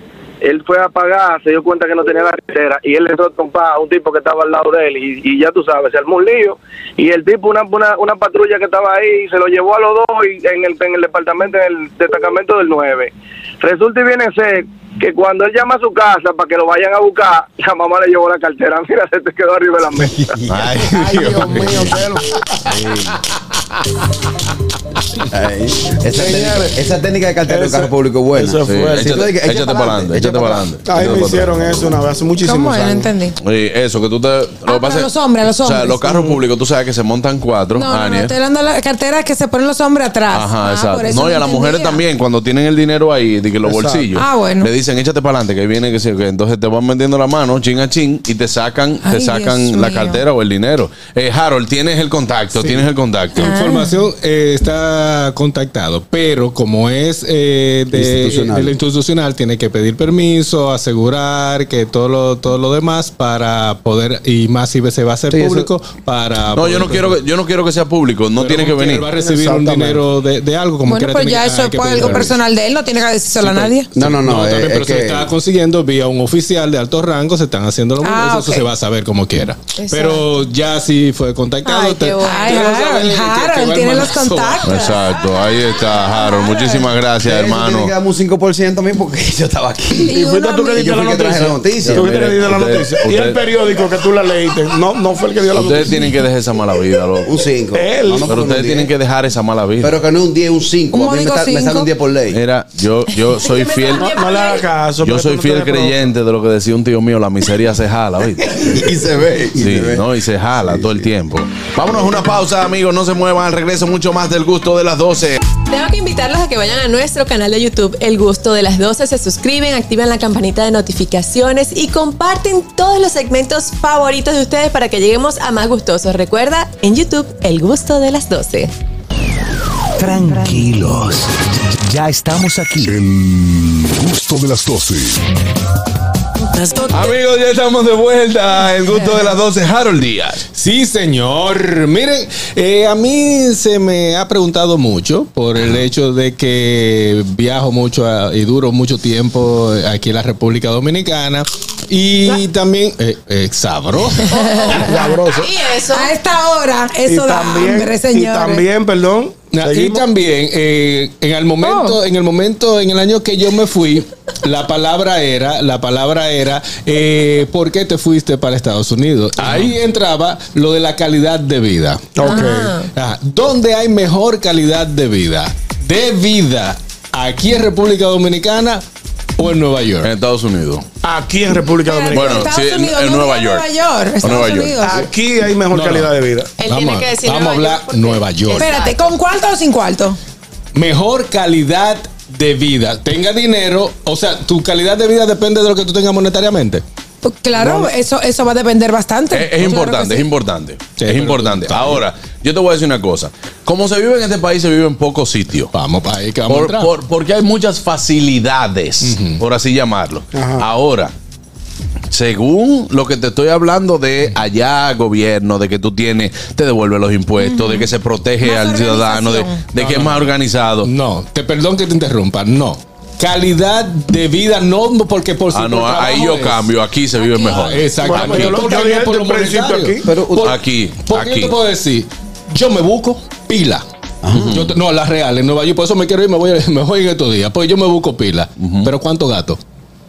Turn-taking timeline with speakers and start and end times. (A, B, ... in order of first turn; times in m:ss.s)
0:00.4-0:20.4 A
0:20.5-0:21.9 B
0:20.9-0:22.6 C
0:22.7-0:23.2 D
0:25.3-0:30.7 D
0:26.2-0:26.7 C
0:27.5-0:29.2 C
0:28.6-0:31.9 B
0:30.8-0:33.1 C
0:32.4-0:33.3 E
0:33.4-0:35.1 B
0:34.7-0:36.2 E
0:35.6-0:38.3 B
0:37.8-0:42.0 E
0:40.3-0:53.5 B
0:43.6-0:44.1 C
0:44.1-0:44.7 E
0:49.0-0:50.2 E
0:53.3-1:07.2 F
0:53.4-0:54.0 E
0:57.9-0:58.7 D
1:05.3-1:05.7 D
1:06.5-1:09.1 B
1:08.4-1:12.4 F
1:09.1-1:10.0 C
1:10.9-1:13.9 E
1:13.4-1:24.7 F
1:13.9-1:15.3 D
1:18.0-1:18.6 E
1:19.8-1:20.2 G
1:21.6-1:22.7 G
1:22.2-1:25.1 E
1:24.6-1:27.9 B
1:26.1-1:26.9 E
1:27.2-1:30.2 D
1:30.1-1:31.0 E
1:30.1-1:36.2 C
1:30.7-1:32.2 D
1:31.9-1:33.4 B
1:35.5-1:37.3 B
1:37.2-1:38.9 D
1:37.7-1:38.4 C
1:38.2-1:39.9 B
1:39.8-1:42.4 D
1:40.9-1:41.9 E
1:42.3-1:44.2 B
1:43.4-1:44.6 G
1:43.9-1:46.1 C
1:45.0-1:48.5 B
1:48.6-1:51.1 D
1:49.6-1:55.4 B
1:51.8-1:52.2 D
1:55.7-2:08.7 G
2:10.0-2:11.3 H
2:11.9-2:12.9 H
2:12.8-2:15.2 I
2:16.8-2:20.4 B
2:20.5-2:34.3 F
2:34.3-2:36.1 G
2:34.7-2:35.5 C
2:35.9-2:38.6 E
2:37.1-2:40.0 C
2:39.5-2:52.2 F
2:41.6-2:42.0 E
2:49.4-2:49.7 B
2:52.2-2:52.8 C
2:52.2-2:52.9 G
2:52.9-2:58.8 F
2:59.4-3:00.1 F
3:00.0-3:00.8 B
3:01.0-3:02.5 C
3:01.8-3:05.0 E
3:02.1-3:03.7 B
3:04.2-3:04.8 B
3:04.8-3:06.5 C
3:05.7-3:06.1 F
3:06.6-3:09.1 G
3:06.6-3:08.7 F
3:08.6-3:10.2 E
3:10.7-3:16.8 F
3:17.2-3:20.3 E
3:19.3-3:25.7 B
3:21.0-3:22.0 F
3:25.7-3:26.9 F
3:26.5-3:31.1 B
3:29.0-3:29.4 F
3:30.3-3:30.6 C
3:32.1-3:40.9 B
3:37.4-3:37.9 E
3:38.4-3:39.6 E
3:39.8-3:40.3 F
3:40.8-3:46.7 F
3:45.5-3:48.6 B
3:47.5-3:53.8 F
3:48.0-3:50.1 C
3:50.0-3:50.6 D
3:50.4-3:51.5 B
3:54.2-3:54.7 D
3:54.5-3:59.6 F
3:58.6-3:58.9 B